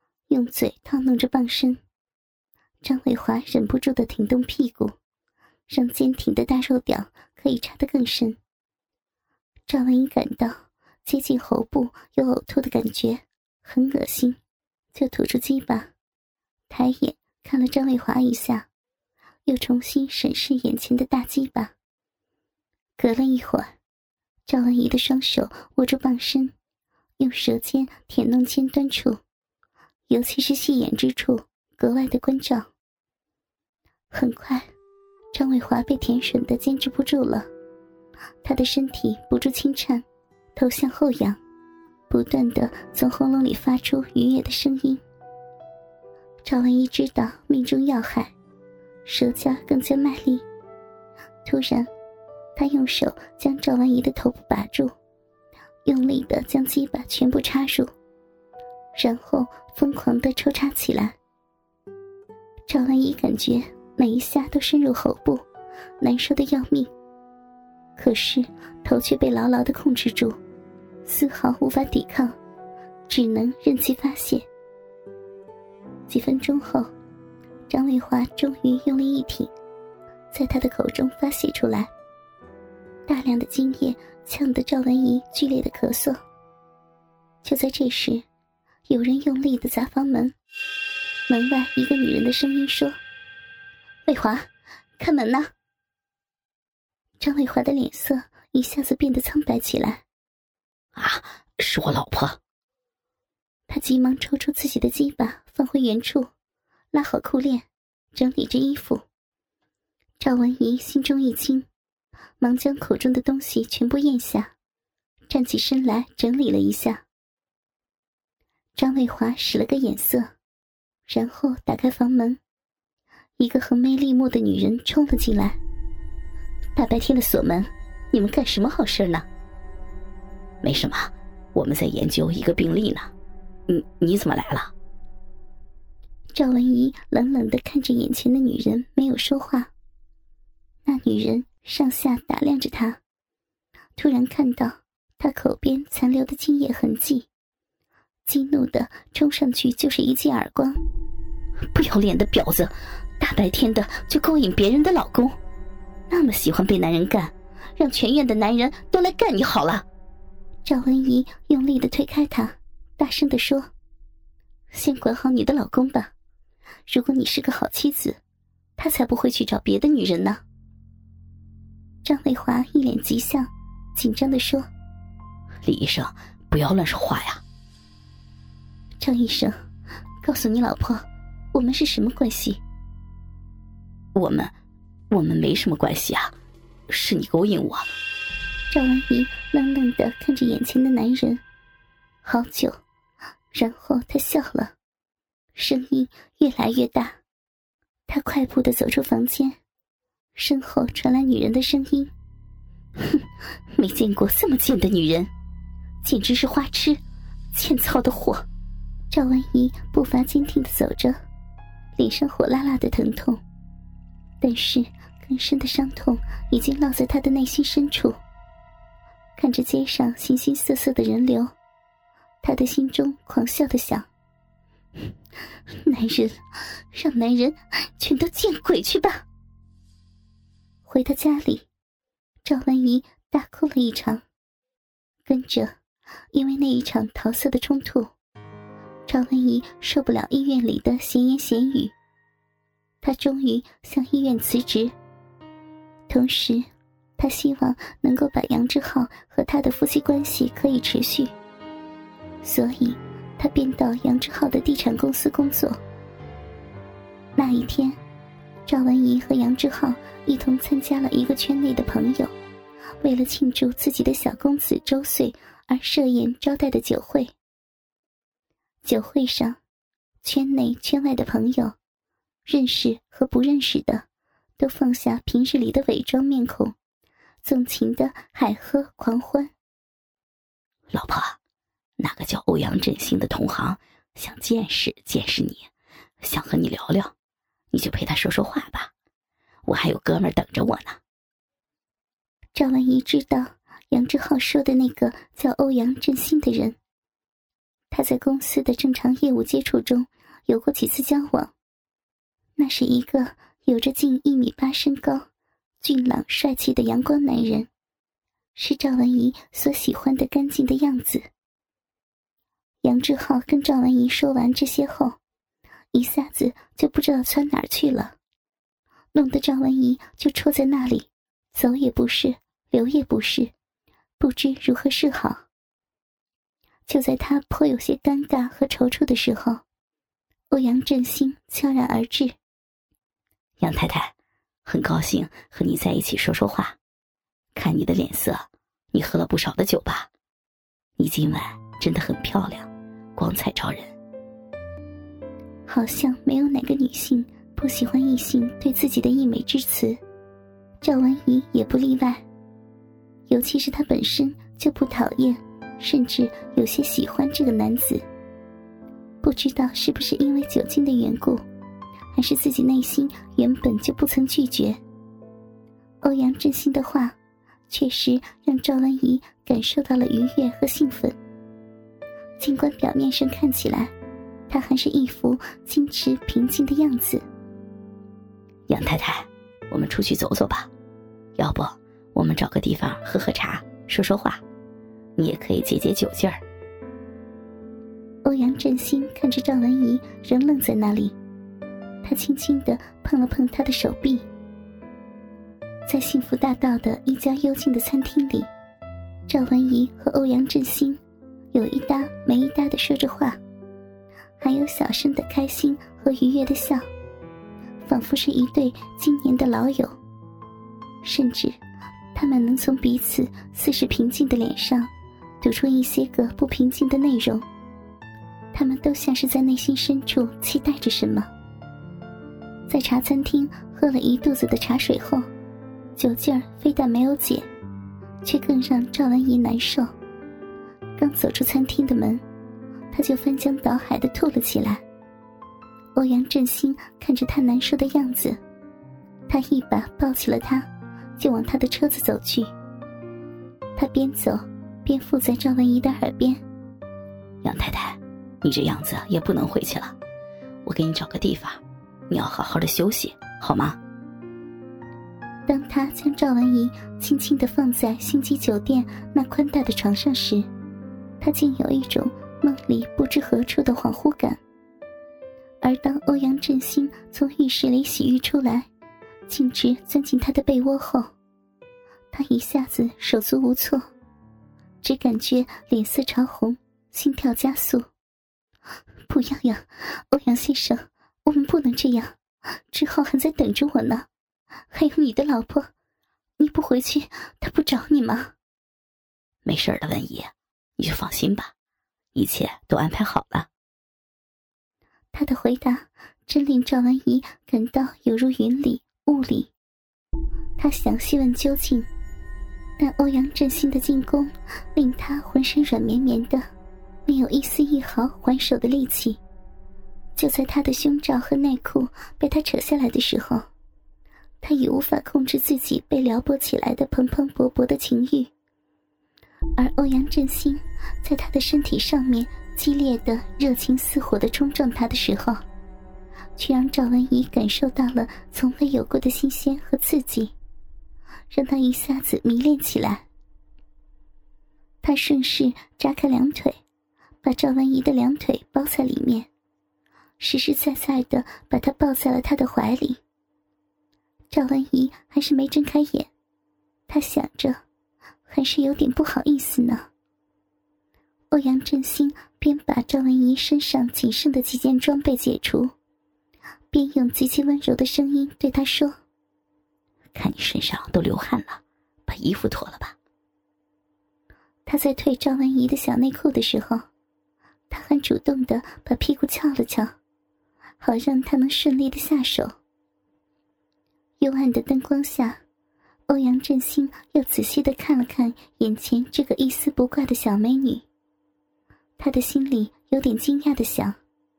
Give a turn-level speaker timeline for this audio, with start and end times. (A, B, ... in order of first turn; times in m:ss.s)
0:00.3-0:01.8 A
0:02.8-0:04.9 A
0:05.7-0:08.4 A
0:09.7-0:14.4 A
0:14.9-0:15.9 A
0:16.7-0:18.6 A
0:19.4-0:21.7 A
0:23.0-0:23.7 A
0:24.4-0:26.5 A
0:27.2-0:29.2 A
0:30.1-0:32.7 A
0:34.1-0:34.7 A
0:35.3-0:37.4 A
0:38.4-0:40.0 A
0:40.6-0:41.4 A
0:42.1-0:45.0 A
0:46.4-0:48.3 A
0:49.0-0:50.4 A
0:51.4-0:51.9 A
0:52.6-0:54.9 A
0:55.8-0:57.9 A
0:58.9-1:01.1 A
1:02.7-1:05.4 A
1:06.0-1:06.9 A
1:08.0-1:10.4 A
1:11.0-1:12.3 A
1:13.1-1:14.4 A
1:16.1-1:16.9 A
1:17.7-1:19.5 A
1:20.3-1:21.9 A
1:23.1-1:26.2 A
1:27.4-1:28.2 A
1:28.9-1:30.3 A
1:31.3-1:33.0 A
1:34.0-1:35.5 A
1:37.2-1:40.0 A
1:41.0-1:42.4 B
1:43.7-1:46.3 A
1:46.9-1:49.0 A
1:50.2-1:51.7 A
1:52.4-1:54.5 A
1:55.3-1:57.0 A
1:58.8-2:00.3 A
2:01.1-2:02.4 A
2:03.4-2:05.6 A
2:06.8-2:08.5 A
2:08.3-2:09.2 B
2:10.6-2:13.1 B
2:13.7-2:14.7 B
2:16.3-2:19.7 A
2:20.8-2:23.0 A
2:24.0-2:27.3 A
2:28.2-2:30.8 A
2:31.7-2:35.3 B
2:36.1-2:37.3 B
2:37.8-2:39.2 A
2:38.4-2:39.8 B
2:40.6-2:43.7 A
2:44.7-2:46.1 A
2:46.9-2:48.2 A
2:48.8-2:50.4 A
2:52.0-2:54.7 A
2:55.6-2:57.4 B
2:59.0-2:59.5 A
3:00.2-3:02.6 A
3:04.1-3:04.5 B
3:05.1-3:06.3 B
3:06.9-3:07.9 B
3:08.7-3:11.4 A
3:12.2-3:12.8 A
3:13.5-3:14.7 A
3:15.5-3:17.2 A
3:18.1-3:19.6 A
3:20.3-3:22.1 A
3:23.7-3:25.2 A
3:24.9-3:25.2 B
3:26.0-3:27.0 A
3:27.5-3:28.4 A
3:29.1-3:31.2 A
3:32.0-3:33.4 A
3:34.4-3:38.2 A
3:39.4-3:41.5 A
3:42.4-3:44.0 A
3:45.8-3:49.2 A
3:50.9-3:51.6 A
3:52.4-3:54.2 A
3:55.2-3:55.7 A
3:56.3-3:58.1 A
3:59.1-4:01.9 A
4:03.0-4:04.9 A
4:06.1-4:06.6 A
4:07.2-4:11.3 A
4:12.4-4:15.8 A
4:17.4-4:18.0 A
4:18.6-4:22.3 A
4:23.0-4:27.3 A
4:28.8-4:29.6 A
4:30.2-4:31.7 A
4:32.4-4:34.0 A
4:34.6-4:36.7 A
4:37.4-4:39.5 A
4:40.9-4:41.4 B
4:42.0-4:45.7 B
4:46.2-4:47.1 B
4:47.7-4:48.9 B
4:49.6-4:51.0 B
4:52.5-4:56.8 A
4:57.9-5:01.5 A
5:02.6-5:05.2 A
5:05.8-5:07.7 A
5:08.5-5:11.2 A
5:12.8-5:15.2 A
5:15.9-5:18.2 A
5:19.1-5:23.5 A
5:24.2-5:25.4 A
5:26.9-5:29.6 A
5:30.5-5:32.3 A
5:33.6-5:34.1 B
5:34.6-5:36.8 B
5:37.5-5:40.1 B
5:41.0-5:43.9 B
5:45.7-5:50.0 A
5:50.8-5:52.2 A
5:53.3-5:58.0 A
5:59.2-6:01.4 A
6:02.1-6:04.8 A
6:06.0-6:07.1 A
6:07.7-6:11.2 A
6:12.4-6:13.9 A
6:14.5-6:17.2 A
6:18.7-6:20.7 B
6:21.4-6:24.4 B
6:25.2-6:26.4 B
6:28.2-6:31.1 A
6:32.0-6:34.2 A
6:35.9-6:38.5 A
6:39.3-6:41.0 A
6:41.5-6:43.4 A
6:44.4-6:46.8 A
6:47.8-6:50.0 A
6:51.0-6:51.6 A
6:52.1-6:54.9 A
6:55.4-6:57.4 A
6:58.5-7:01.3 A
7:02.7-7:05.2 A
7:06.0-7:07.5 A
7:08.2-7:09.9 A
7:11.0-7:12.2 A
7:12.9-7:14.8 A
7:16.0-7:18.4 A
7:19.3-7:20.6 A
7:21.2-7:22.5 A
7:23.8-7:26.4 A
7:27.4-7:29.9 B
7:30.6-7:33.8 B
7:35.5-7:40.4 A
7:41.2-7:44.4 A
7:45.6-7:48.7 A
7:49.3-7:51.1 A
7:52.1-7:53.8 A
7:54.8-7:57.8 A
7:59.1-8:02.2 A
8:02.7-8:04.0 A
8:04.7-8:05.7 A
8:06.4-8:08.3 A
8:09.4-8:11.5 B
8:12.1-8:13.5 B
8:15.1-8:19.5 A
8:20.6-8:21.9 A
8:22.8-8:26.4 A
8:27.0-8:29.2 A
8:30.2-8:33.5 A
8:34.4-8:38.3 A
8:39.6-8:45.4 A
8:46.4-8:50.3 A
8:51.3-8:53.0 A
8:54.8-8:56.6 A
8:57.2-8:59.3 A
9:00.2-9:03.0 A
9:04.3-9:06.1 A
9:06.9-9:07.6 A
9:08.2-9:09.8 A
9:11.3-9:15.7 A
9:16.7-9:18.9 A
9:20.2-9:22.9 B
9:24.6-9:26.8 A
9:27.7-9:29.9 A
9:30.8-9:32.5 A
9:34.2-9:35.4 A
9:36.1-9:40.8 A
9:42.0-9:44.0 A